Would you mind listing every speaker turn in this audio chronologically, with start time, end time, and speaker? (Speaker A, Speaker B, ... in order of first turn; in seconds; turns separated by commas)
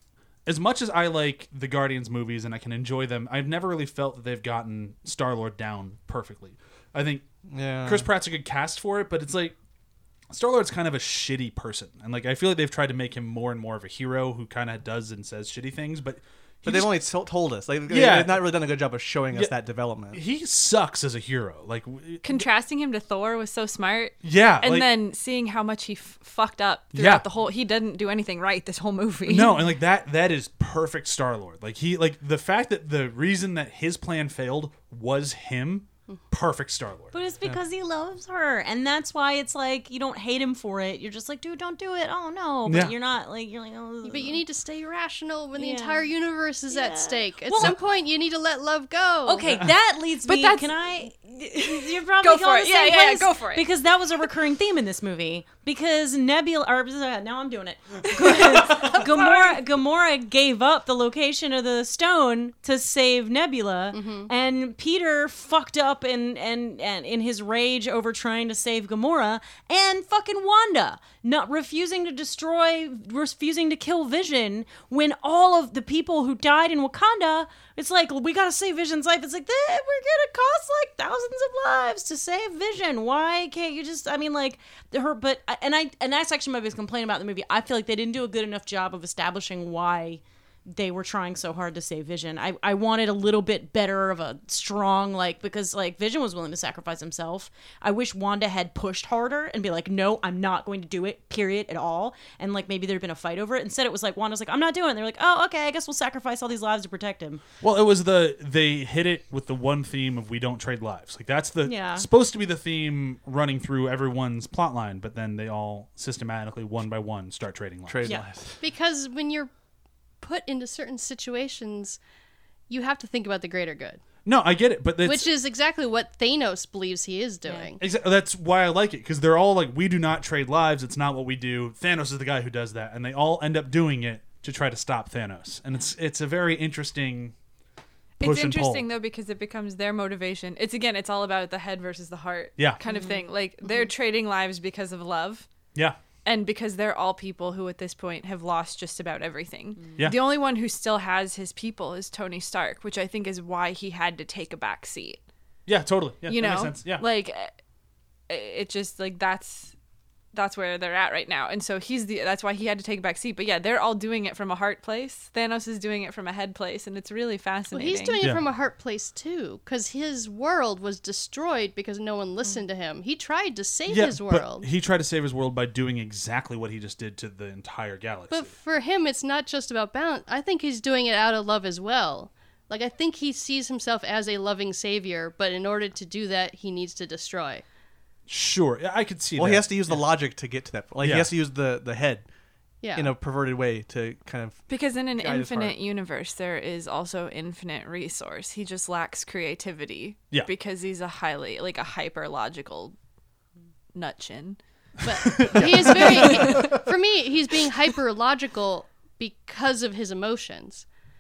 Speaker A: 0.5-7.2, Speaker B: 7.5-8.1, Speaker A: 7.8-9.6, Speaker A: 10.3-16.9, Speaker B: 16.6-20.2, Speaker A: 17.9-18.5, Speaker A: 20.1-22.4, Speaker C: 22.2-29.6, Speaker A: 24.2-24.9, Speaker A: 26.9-27.2, Speaker A: 29.3-37.1, Speaker D: 37.1-44.4, Speaker A: 42.6-42.9, Speaker E: 44.0-49.5, Speaker D: 45.5-46.1, Speaker D: 46.7-47.7, Speaker D: 49.2-107.4, Speaker C: 50.2-53.6, Speaker C: 58.3-59.4, Speaker E: 63.9-64.3, Speaker A: 107.6-118.2, Speaker D: 111.6-112.1, Speaker B: 117.9-118.6, Speaker E: 118.6-119.5, Speaker E: 120.2-122.0, Speaker E: 122.7-124.0, Speaker A: 124.2-125.3, Speaker E: 125.0-127.8, Speaker D: 127.4-127.7, Speaker A: 127.8-137.3, Speaker C: 138.2-145.5, Speaker A: 138.2-138.9, Speaker D: 142.8-143.2, Speaker C: 146.2-155.2, Speaker A: 155.7-157.0, Speaker C: 156.3-157.6, Speaker C: 158.3-159.7, Speaker C: 160.3-168.2, Speaker E: 167.7-174.7, Speaker A: 168.2-168.4, Speaker A: 173.9-178.5, Speaker E: 178.3-187.6, Speaker A: 188.3-190.0, Speaker B: 189.4-192.2, Speaker A: 191.0-191.3, Speaker E: 192.8-193.1, Speaker B: 192.9-195.8, Speaker C: 194.7-202.9, Speaker C: 203.9-204.6, Speaker E: 205.0-210.8, Speaker A: 205.1-206.8, Speaker B: 205.6-206.0